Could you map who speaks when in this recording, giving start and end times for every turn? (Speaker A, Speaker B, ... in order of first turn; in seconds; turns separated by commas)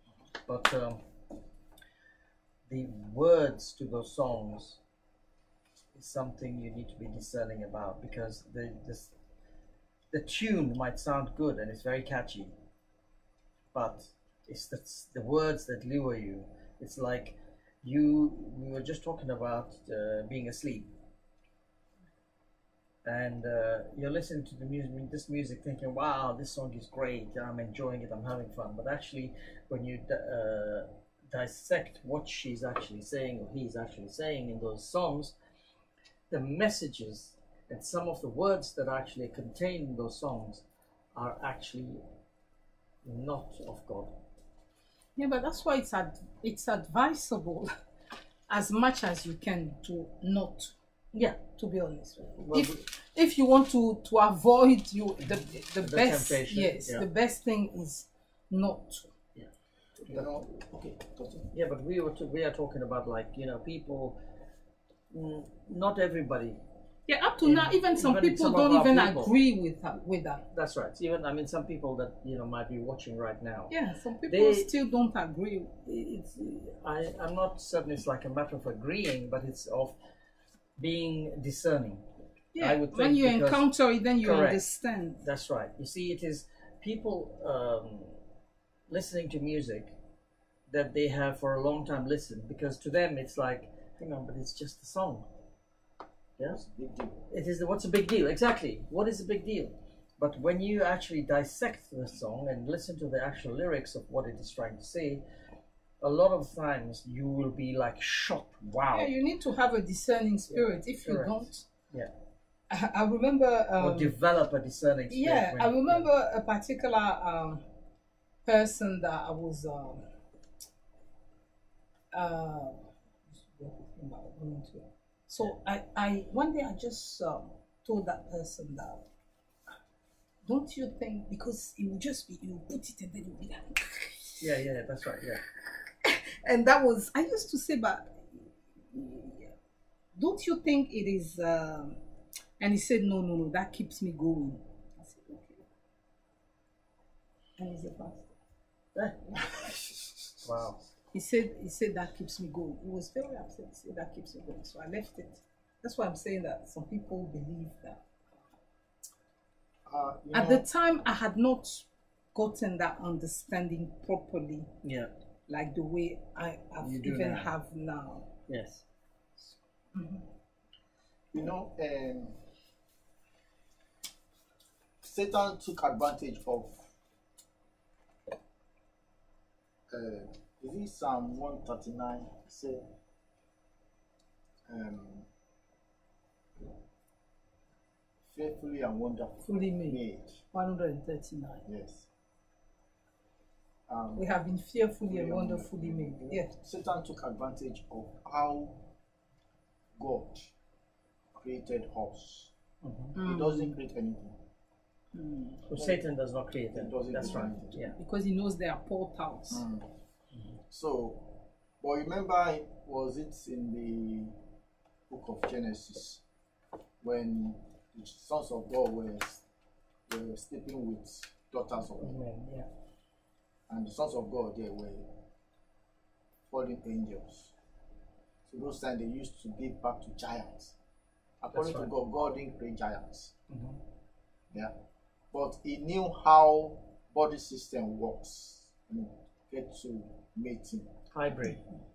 Speaker A: 0.5-1.0, Speaker A: 2.7-4.8, Speaker A: 5.9-9.1, Speaker A: 10.1-12.5, Speaker A: 13.7-20.9, Speaker A: 23.0-35.4, Speaker A: 36.3-42.0, Speaker A: 43.0-44.2, Speaker B: 45.1-47.7, Speaker B: 48.5-50.7, Speaker A: 51.1-51.4, Speaker B: 51.5-59.1, Speaker A: 52.4-52.8, Speaker A: 55.3-57.0, Speaker C: 60.0-61.5, Speaker A: 60.0-60.3, Speaker A: 61.5-64.2, Speaker A: 65.1-66.6, Speaker B: 67.1-70.4, Speaker A: 67.4-69.3, Speaker A: 70.5-73.7, Speaker B: 73.7-75.8, Speaker A: 74.3-74.7, Speaker A: 75.8-80.0, Speaker A: 80.8-84.6, Speaker B: 82.5-85.2, Speaker A: 85.2-88.2, Speaker A: 88.9-89.9, Speaker A: 90.7-95.3, Speaker C: 96.4-97.2, Speaker A: 97.3-105.2, Speaker A: 106.0-109.1, Speaker B: 108.9-111.7, Speaker A: 110.5-112.1, Speaker B: 112.7-114.1, Speaker A: 113.8-116.1, Speaker B: 115.1-117.6, Speaker B: 118.4-120.1, Speaker B: 122.1-129.0, Speaker B: 130.4-134.5, Speaker A: 134.4-135.4, Speaker B: 136.0-139.5, Speaker B: 140.1-142.0, Speaker B: 142.6-145.7, Speaker B: 147.6-148.3, Speaker A: 148.9-149.3, Speaker C: 149.4-150.0, Speaker A: 150.4-150.9, Speaker B: 151.1-158.2, Speaker C: 159.8-160.7, Speaker B: 160.3-164.7, Speaker A: 164.8-165.1, Speaker B: 165.5-168.3, Speaker A: 166.8-167.5, Speaker A: 168.5-168.8, Speaker B: 169.9-170.3, Speaker C: 171.3-172.4, Speaker C: 175.0-176.9, Speaker C: 179.9-182.9, Speaker C: 184.7-185.3, Speaker C: 188.2-190.4, Speaker B: 189.4-190.0, Speaker B: 190.5-191.6, Speaker C: 191.7-192.1, Speaker C: 193.9-194.3, Speaker B: 194.1-196.5, Speaker C: 195.1-198.9, Speaker C: 200.0-200.5, Speaker C: 201.3-202.5, Speaker A: 202.8-203.1, Speaker B: 203.1-203.8, Speaker C: 203.2-204.4, Speaker B: 205.1-205.6, Speaker A: 205.6-208.0, Speaker C: 205.8-206.0, Speaker C: 206.7-207.9, Speaker B: 207.9-209.6, Speaker C: 209.5-209.9, Speaker C: 210.7-214.4, Speaker C: 215.1-216.2, Speaker C: 217.0-219.4, Speaker C: 220.1-222.2, Speaker A: 222.0-222.7, Speaker C: 223.7-225.2, Speaker C: 226.5-227.5, Speaker C: 228.4-230.8, Speaker C: 231.4-233.3, Speaker A: 231.5-231.9, Speaker A: 233.5-233.8, Speaker C: 235.3-241.0, Speaker A: 241.1-241.6, Speaker B: 241.4-241.7